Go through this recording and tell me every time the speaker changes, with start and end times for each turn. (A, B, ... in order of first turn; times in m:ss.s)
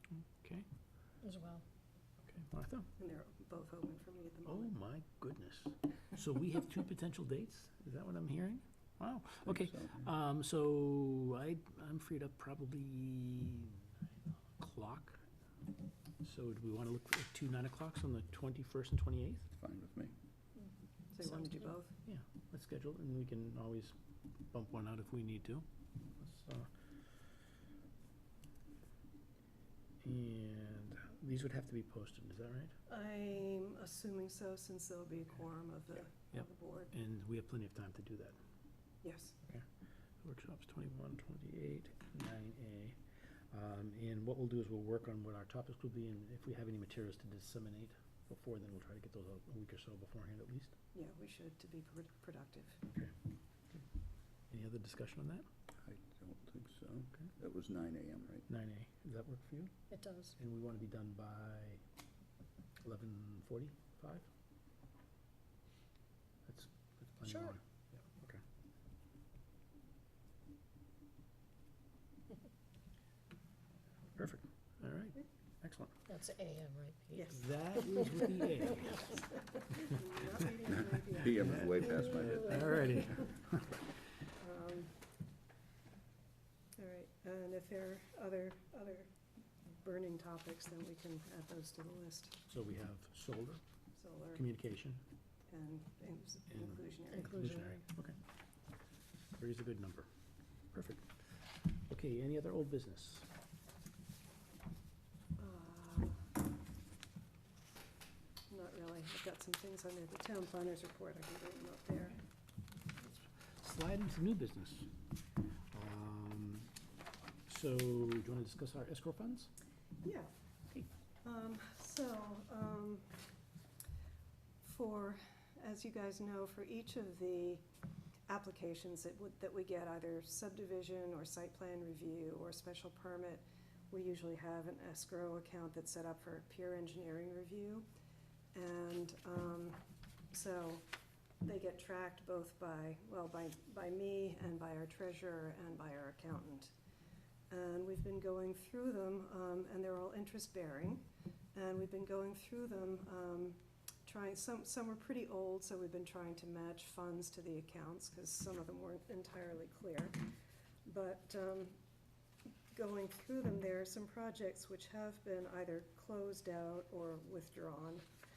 0:00.1-0:00.6 A
0:01.2-0:01.6 B
0:02.2-0:02.9 A
0:03.0-0:04.7 C
0:04.4-0:15.2 A
0:09.4-0:10.1 D
0:16.2-0:19.5 A
0:19.5-0:20.1 D
0:21.1-0:21.9 C
0:22.0-0:23.9 A
0:24.5-0:25.6 A
0:26.2-0:26.7 A
0:30.0-0:32.7 A
0:32.9-0:36.9 C
0:36.3-0:38.4 A
0:39.0-0:39.4 C
0:40.2-0:42.9 A
0:43.5-0:50.7 A
0:50.9-0:52.8 C
0:54.5-0:55.4 A
0:55.8-0:58.4 D
0:58.5-0:59.7 A
0:59.9-1:00.3 B
1:00.4-1:01.8 A
1:02.8-1:04.3 A
1:06.4-1:08.4 A
1:07.2-1:07.5 B
1:14.2-1:16.0 A
1:16.1-1:17.4 B
1:17.1-1:19.3 A
1:17.2-1:17.4 C
1:19.7-1:21.9 C
1:21.1-1:22.8 D
1:21.4-1:23.6 A
1:24.4-1:24.9 C
1:26.8-1:29.1 C
1:29.7-1:32.4 C
1:32.5-1:33.6 A
1:34.0-1:34.4 C
1:34.3-1:35.0 A
1:35.5-1:37.7 C
1:36.5-1:38.2 A
1:37.2-1:37.7 B
1:39.4-1:40.1 A
1:40.7-1:41.1 A
1:41.9-1:43.3 A
1:45.4-1:46.2 C
1:48.5-1:52.2 C
1:53.0-1:54.9 A
1:55.7-1:56.7 A
1:57.5-1:59.5 A
2:00.0-2:00.3 C
2:01.2-2:03.2 C
2:04.6-2:07.6 C
2:08.3-2:17.9 C
2:18.5-2:20.8 C
2:21.4-2:26.7 C
2:27.5-2:40.3 C
2:40.8-2:41.8 C
2:42.7-2:48.0 C